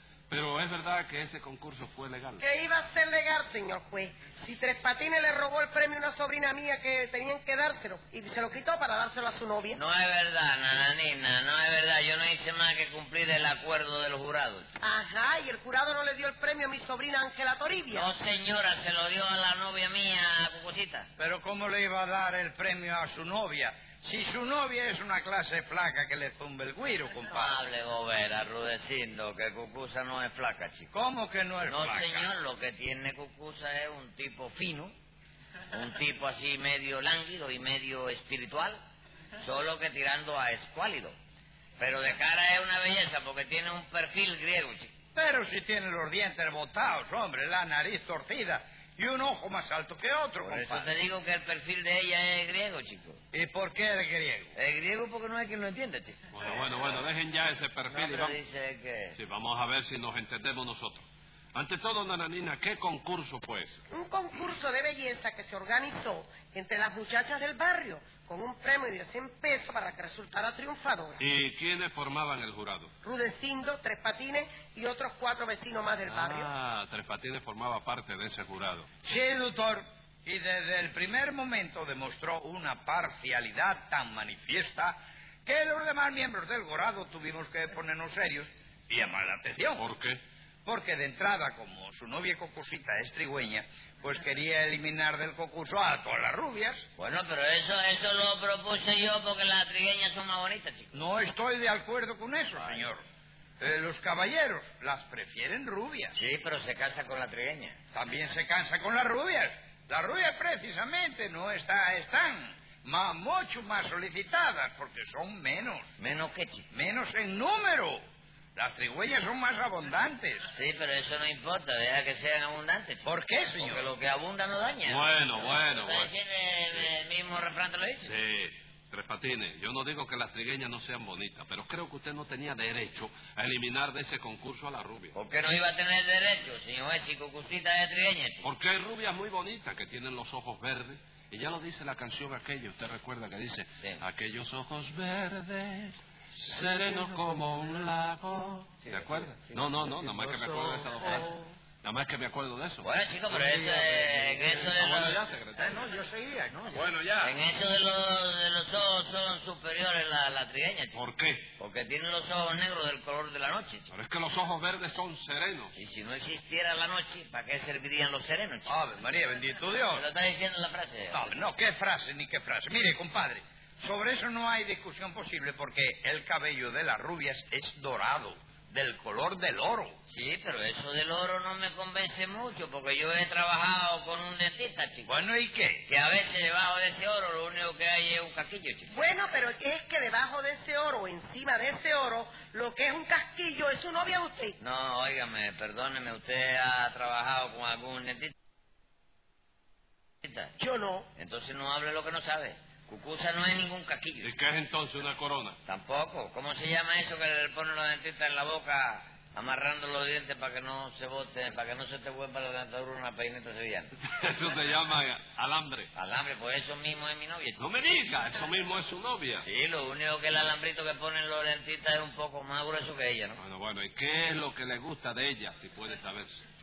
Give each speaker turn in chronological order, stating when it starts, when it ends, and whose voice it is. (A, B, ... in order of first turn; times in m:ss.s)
0:00.3-0:02.4 A
0:02.4-0:09.8 B
0:09.7-0:14.7 C
0:14.8-0:18.1 B
0:17.9-0:21.1 C
0:21.2-0:27.6 D
0:27.3-0:30.9 C
0:30.9-0:32.3 D
0:31.6-0:34.9 C
0:35.7-0:38.8 C
0:39.4-0:41.2 C
0:41.8-0:44.9 C
0:45.2-0:50.9 D
0:50.4-0:53.2 C
0:53.3-0:54.5 D
0:54.6-0:56.2 C
0:56.3-0:58.4 A
0:57.9-0:59.2 C
0:59.2-1:03.8 A
1:03.9-1:11.2 B
1:11.2-1:12.9 A
1:13.0-1:16.5 B
1:16.0-1:18.9 A
1:19.0-1:29.8 D
1:29.8-1:30.2 A
1:30.6-1:36.8 D
1:37.0-1:41.0 C
1:40.9-1:43.0 D
1:42.6-1:42.9 C
1:43.6-1:46.2 D
1:46.2-1:47.8 C
1:47.9-1:56.0 D
1:56.0-1:56.7 C
1:56.7-1:58.0 D
1:58.6-2:00.5 D
2:00.5-2:08.2 C
2:03.0-2:03.9 D
2:04.9-2:06.1 A
2:08.0-2:15.2 A
2:15.1-2:18.5 C
2:18.4-2:33.4 A
2:30.0-2:31.5 E
2:32.8-2:35.2 C
2:33.5-2:34.7 E
2:34.1-2:35.8 A
2:35.6-2:36.8 E
2:36.7-2:37.4 A
2:37.2-2:41.0 C
2:40.9-2:41.5 A
2:41.6-2:43.9 C
2:43.9-2:45.7 A
2:45.8-2:48.8 C
2:48.7-2:50.0 D
2:49.9-2:51.4 C
2:51.1-3:00.0 D
3:00.1-3:05.1 C
3:05.0-3:05.8 D
3:05.9-3:09.1 C
3:08.9-3:14.6 B
3:14.6-3:18.3 C
3:20.2-3:20.6 C
3:20.6-3:21.1 B
3:21.1-3:24.3 C
3:24.2-3:25.6 A
3:25.7-3:33.9 C
3:34.0-3:35.9 A
3:35.9-3:37.8 C
3:37.6-3:39.5 A
3:39.4-3:43.4 C
3:43.4-3:46.4 A